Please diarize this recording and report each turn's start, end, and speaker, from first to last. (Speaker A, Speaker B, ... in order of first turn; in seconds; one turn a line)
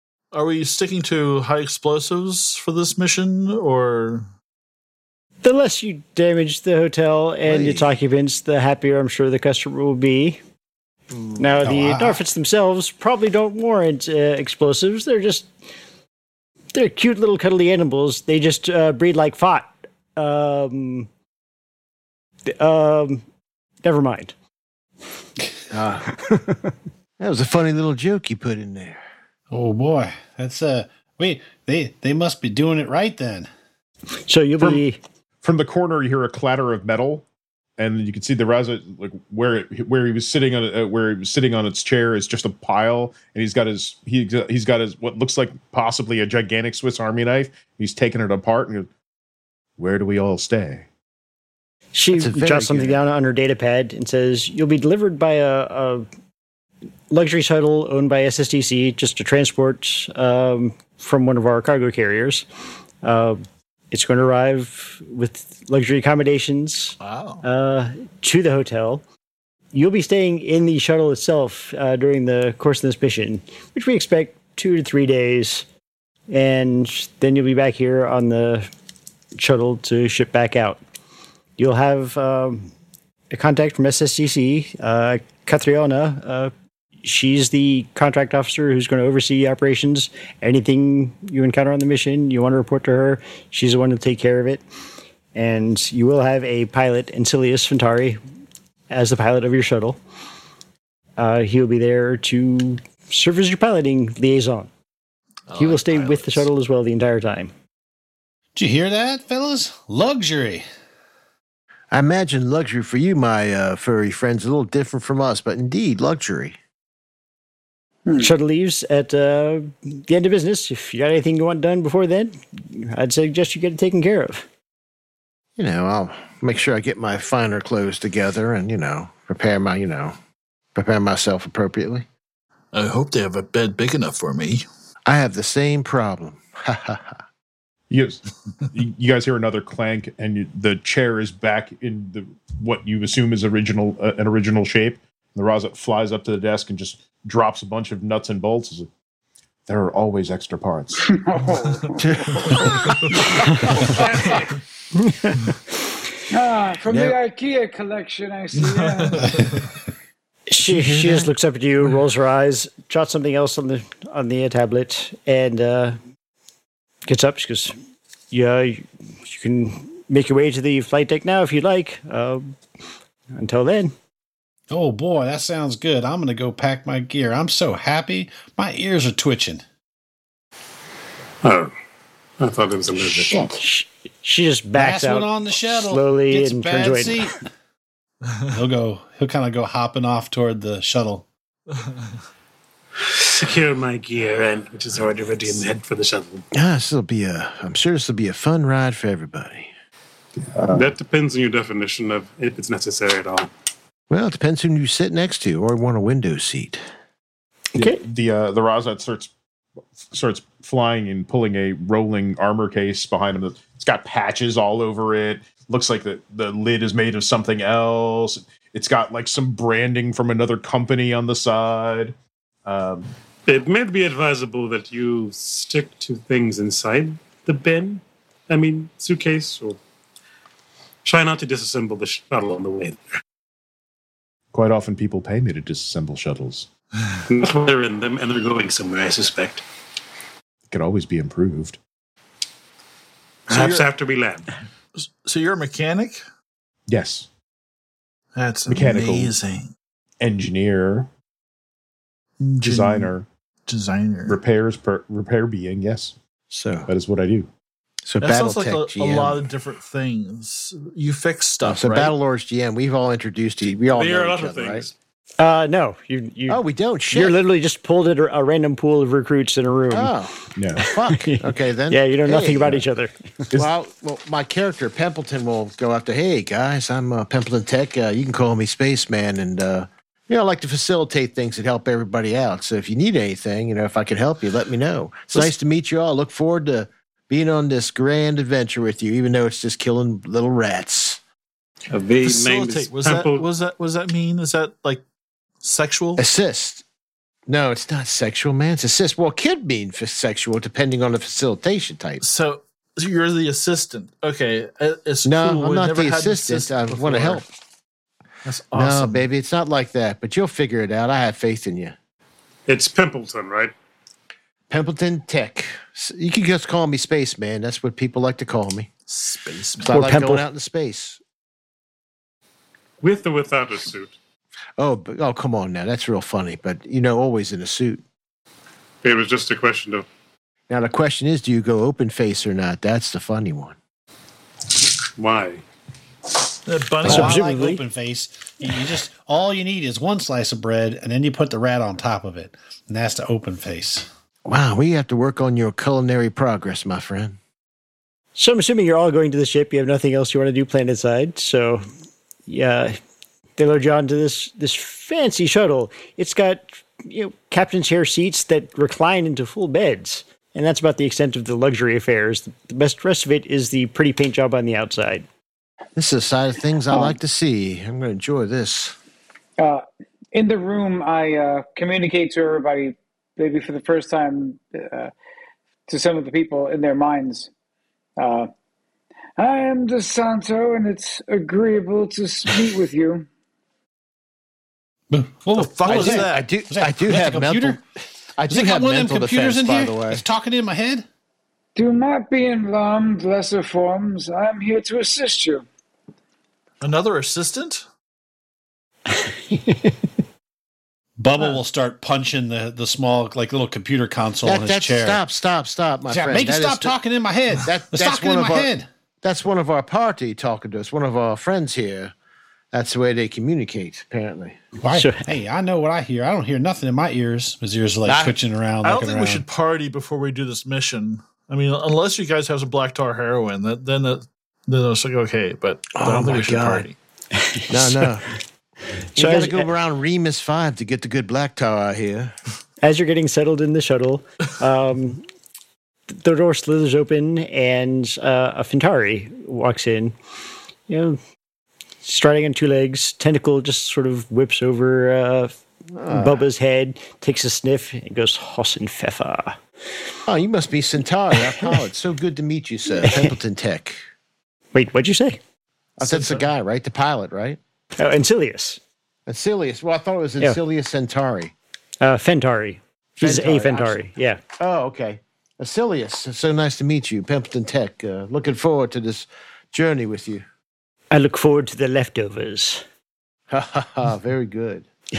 Speaker A: 0.3-4.3
Speaker B: 5.4-10.4
Speaker C: 7.5-7.9
Speaker B: 11.4-15.5
Speaker D: 11.6-12.2
Speaker B: 16.7-21.1
Speaker B: 22.5-23.2
Speaker B: 23.8-24.3
Speaker C: 25.7-26.1
Speaker B: 26.1-26.7
Speaker C: 27.2-29.0
Speaker D: 29.5-33.5
Speaker B: 34.3-35.0
Speaker E: 35.4-37.3
Speaker E: 37.8-48.9
Speaker E: 49.8-50.9
Speaker B: 51.9-56.1
Speaker C: 52.1-53.0
Speaker B: 57.1-62.5
Speaker B: 63.0-69.0
Speaker C: 67.0-67.4
Speaker B: 69.7-75.7
Speaker B: 76.3-78.7
Speaker B: 79.4-80.8
Speaker B: 81.6-82.7
Speaker B: 83.3-86.5
Speaker B: 87.0-94.6
Speaker B: 95.3-98.2
Speaker B: 98.9-100.0
Speaker B: 101.2-104.7
Speaker A: 105.5-106.5
Speaker B: 105.5-107.5
Speaker D: 108.6-110.7
Speaker C: 111.9-116.6
Speaker B: 118.2-124.5
Speaker C: 125.6-130.2
Speaker C: 130.8-132.1
Speaker A: 132.7-134.7
Speaker C: 135.1-137.2
Speaker E: 137.9-148.9
Speaker E: 149.7-151.0
Speaker F: 151.0-152.4
Speaker C: 152.0-153.1
Speaker A: 152.5-153.2
Speaker F: 153.8-154.4
Speaker B: 154.9-155.5
Speaker F: 156.3-159.3
Speaker C: 156.9-157.2
Speaker A: 158.6-159.7
Speaker B: 160.5-166.0
Speaker C: 160.7-161.3
Speaker B: 167.1-167.8
Speaker B: 168.3-172.6
Speaker B: 173.3-173.9
Speaker D: 174.7-179.6
Speaker G: 181.4-181.7
Speaker G: 182.4-183.5
Speaker B: 183.3-187.3
Speaker D: 184.8-187.4
Speaker D: 188.5-191.3
Speaker A: 191.7-192.0
Speaker G: 193.1-196.5
Speaker C: 196.5-199.7
Speaker E: 200.4-200.9
Speaker G: 200.7-203.5
Speaker C: 204.1-206.8
Speaker E: 207.8-209.3
Speaker E: 210.1-223.1
Speaker G: 223.5-229.8
Speaker G: 231.1-233.0
Speaker E: 234.5-236.7
Speaker G: 237.3-239.6
Speaker E: 240.7-241.8
Speaker G: 243.5-244.5
Speaker A: 243.5-243.9
Speaker A: 245.0-246.2
Speaker E: 246.9-247.3
Speaker A: 248.3-249.7
Speaker E: 248.7-249.3
Speaker E: 250.2-251.1
Speaker A: 252.4-253.1
Speaker E: 252.6-253.3
Speaker A: 253.7-254.4
Speaker E: 254.3-256.2
Speaker C: 256.5-256.9
Speaker E: 256.9-257.5
Speaker C: 258.1-259.5
Speaker A: 258.2-262.1
Speaker C: 261.6-264.9
Speaker G: 263.9-264.9
Speaker B: 265.4-270.1
Speaker C: 266.5-267.4
Speaker C: 269.9-272.8
Speaker E: 270.6-270.9
Speaker B: 271.1-273.4
Speaker C: 273.5-291.2
Speaker G: 291.9-293.4
Speaker A: 292.2-295.0
Speaker A: 295.6-296.2
Speaker C: 296.2-296.8
Speaker C: 297.5-302.2
Speaker A: 302.2-307.5
Speaker C: 305.2-307.5
Speaker A: 308.4-309.2
Speaker C: 308.7-311.9
Speaker G: 312.7-313.7
Speaker C: 314.7-318.9
Speaker A: 319.1-320.0
Speaker C: 319.8-321.2
Speaker B: 319.9-320.5
Speaker G: 323.0-324.2
Speaker C: 324.8-328.0
Speaker G: 329.0-330.1
Speaker C: 330.7-333.8
Speaker G: 335.2-335.6
Speaker A: 336.7-337.5
Speaker D: 337.0-344.1
Speaker B: 337.1-337.8
Speaker C: 344.4-347.4
Speaker B: 348.4-351.8
Speaker B: 352.5-353.0
Speaker B: 353.6-365.3
Speaker C: 366.0-369.0
Speaker F: 369.6-375.1
Speaker F: 375.9-377.5
Speaker F: 378.2-378.5
Speaker F: 379.4-383.3
Speaker D: 385.1-387.8
Speaker A: 385.5-386.5
Speaker C: 385.9-390.2
Speaker D: 388.5-391.1
Speaker F: 391.8-395.7
Speaker A: 396.8-397.9
Speaker B: 399.1-400.1
Speaker D: 401.2-405.2
Speaker C: 404.4-407.0
Speaker D: 406.1-408.9
Speaker C: 407.6-412.1
Speaker C: 412.7-414.6
Speaker D: 414.8-419.4
Speaker B: 414.9-415.3
Speaker C: 418.1-418.4
Speaker A: 418.8-427.0
Speaker C: 425.9-426.9
Speaker B: 427.4-428.1
Speaker C: 427.7-428.3
Speaker B: 429.1-429.7
Speaker C: 429.2-432.3
Speaker B: 432.8-435.2
Speaker B: 436.1-440.1
Speaker B: 440.9-441.2
Speaker B: 442.0-445.5
Speaker C: 445.9-446.5
Speaker B: 446.1-449.6
Speaker C: 450.3-454.0
Speaker B: 453.0-453.4
Speaker B: 454.7-455.4
Speaker C: 456.0-457.6
Speaker A: 456.0-456.5
Speaker B: 458.0-458.8
Speaker C: 459.3-461.5
Speaker B: 462.0-464.4
Speaker C: 463.2-464.0
Speaker C: 464.6-470.4
Speaker B: 471.1-472.8
Speaker C: 473.5-474.9